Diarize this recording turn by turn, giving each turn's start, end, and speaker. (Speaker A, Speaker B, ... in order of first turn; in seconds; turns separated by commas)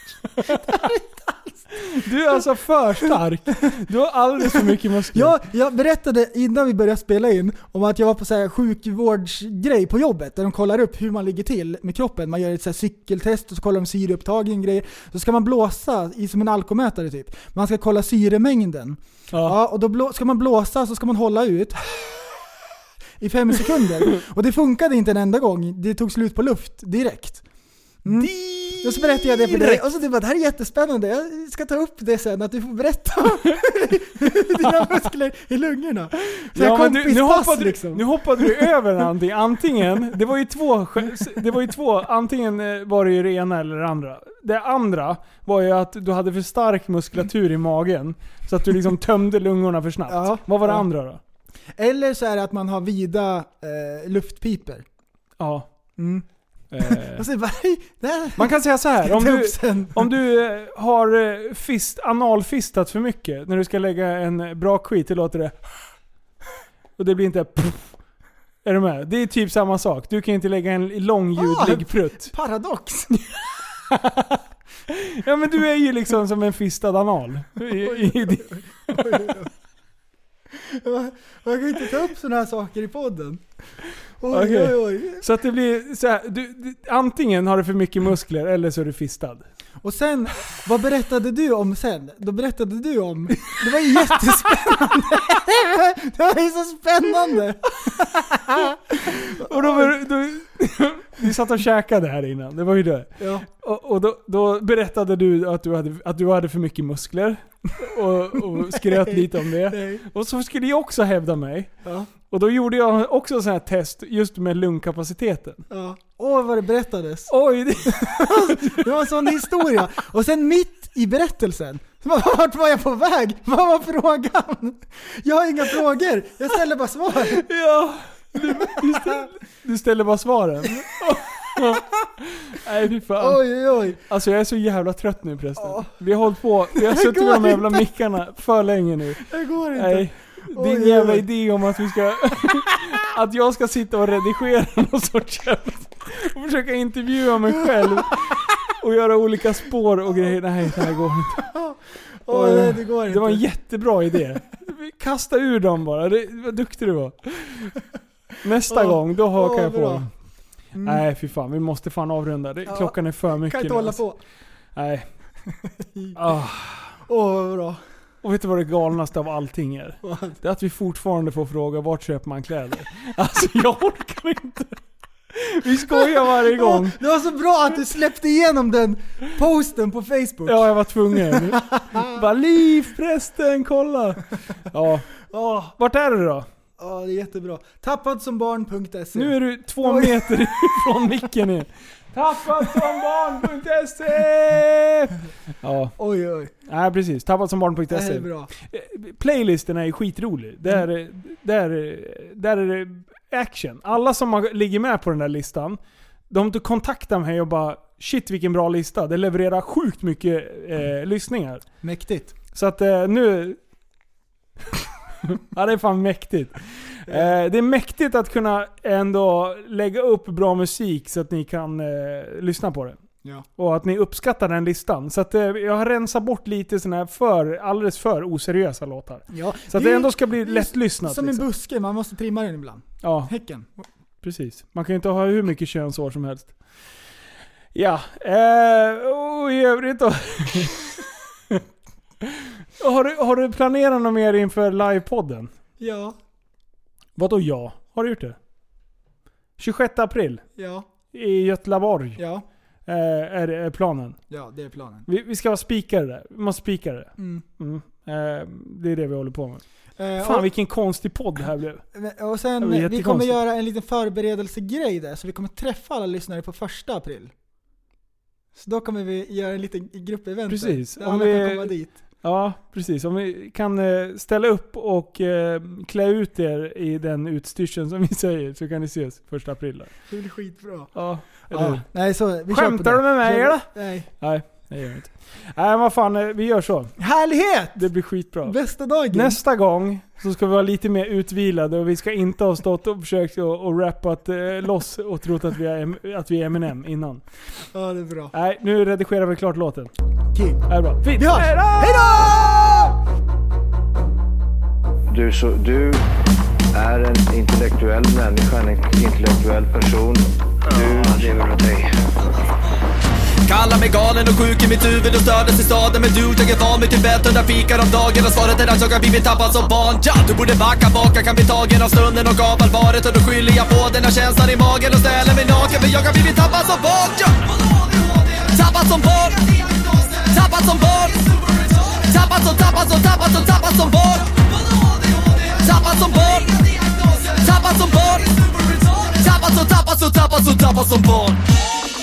Speaker A: 0.3-0.9, Speaker B: 0.4-1.6, Speaker A: 1.8-5.4, Speaker B: 5.1-22.4, Speaker A: 19.3-19.6, Speaker B: 23.2-27.4, Speaker B: 28.0-38.7, Speaker A: 28.1-29.8, Speaker A: 36.5-51.2, Speaker B: 50.1-50.8, Speaker B: 51.8-54.9, Speaker A: 55.4-55.7, Speaker B: 56.0-56.2, Speaker A: 56.7-57.3, Speaker B: 56.8-60.1, Speaker A: 58.4-65.5, Speaker A: 67.0-68.0, Speaker A: 68.6-72.3, Speaker B: 71.4-73.1, Speaker A: 73.1-79.3, Speaker B: 77.7-79.5, Speaker B: 80.5-83.4, Speaker B: 84.2-85.2, Speaker A: 84.3-89.5, Speaker B: 89.8-100.0, Speaker A: 93.5-94.4, Speaker A: 99.0-115.6, Speaker B: 103.2-103.5, Speaker B: 108.6-110.0, Speaker B: 111.8-112.1, Speaker B: 115.7-117.3, Speaker A: 117.3-119.5, Speaker B: 117.9-127.5, Speaker A: 127.3-151.5, Speaker B: 128.6-129.2, Speaker B: 133.2-134.0, Speaker B: 135.6-135.9, Speaker B: 136.8-137.8, Speaker B: 139.2-141.2, Speaker B: 151.5-153.4, Speaker A: 152.3-157.8, Speaker A: 158.4-160.1, Speaker B: 158.7-160.1, Speaker B: 160.7-161.0, Speaker A: 160.8-164.0, Speaker B: 162.7-164.2, Speaker A: 164.7-165.1, Speaker B: 165.7-166.2, Speaker A: 166.1-166.9, Speaker B: 167.1-167.8, Speaker A: 168.2-174.8, Speaker B: 170.0-170.4, Speaker A: 175.3-177.0, Speaker B: 176.1-180.7, Speaker A: 180.4-186.5, Speaker B: 181.2-182.2, Speaker B: 186.8-190.8, Speaker A: 189.1-195.9, Speaker B: 196.0-196.5, Speaker A: 196.6-205.8, Speaker B: 197.9-198.5, Speaker A: 206.3-211.6, Speaker B: 211.8-212.3, Speaker A: 212.5-213.6, Speaker A: 215.2-223.0, Speaker B: 217.1-217.3, Speaker A: 223.6-231.5, Speaker B: 229.3-233.7, Speaker A: 233.0-233.3, Speaker A: 234.2-236.5, Speaker A: 237.7-241.6, Speaker A: 242.2-245.5, Speaker B: 245.8-246.2, Speaker A: 247.2-248.4, Speaker A: 249.6-250.4, Speaker B: 250.6-250.8, Speaker A: 251.1-252.2, Speaker B: 252.2-252.4, Speaker A: 252.8-254.2, Speaker B: 254.3-255.1, Speaker A: 255.1-259.6, Speaker B: 257.2-257.4, Speaker B: 260.0-260.5, Speaker A: 260.2-261.8, Speaker B: 261.9-267.3, Speaker A: 262.6-263.4, Speaker B: 268.5-271.9, Speaker A: 270.5-279.9, Speaker B: 280.1-280.9, Speaker A: 280.9-281.8, Speaker B: 281.4-284.1, Speaker A: 282.5-286.9, Speaker B: 287.0-287.9, Speaker A: 287.8-288.6, Speaker B: 288.4-289.4, Speaker A: 289.1-297.2, Speaker B: 297.7-298.3, Speaker A: 298.3-299.9, Speaker B: 300.3-302.9, Speaker A: 300.7-302.4, Speaker C: 305.1-306.0, Speaker C: 306.7-311.9, Speaker D: 313.5-341.4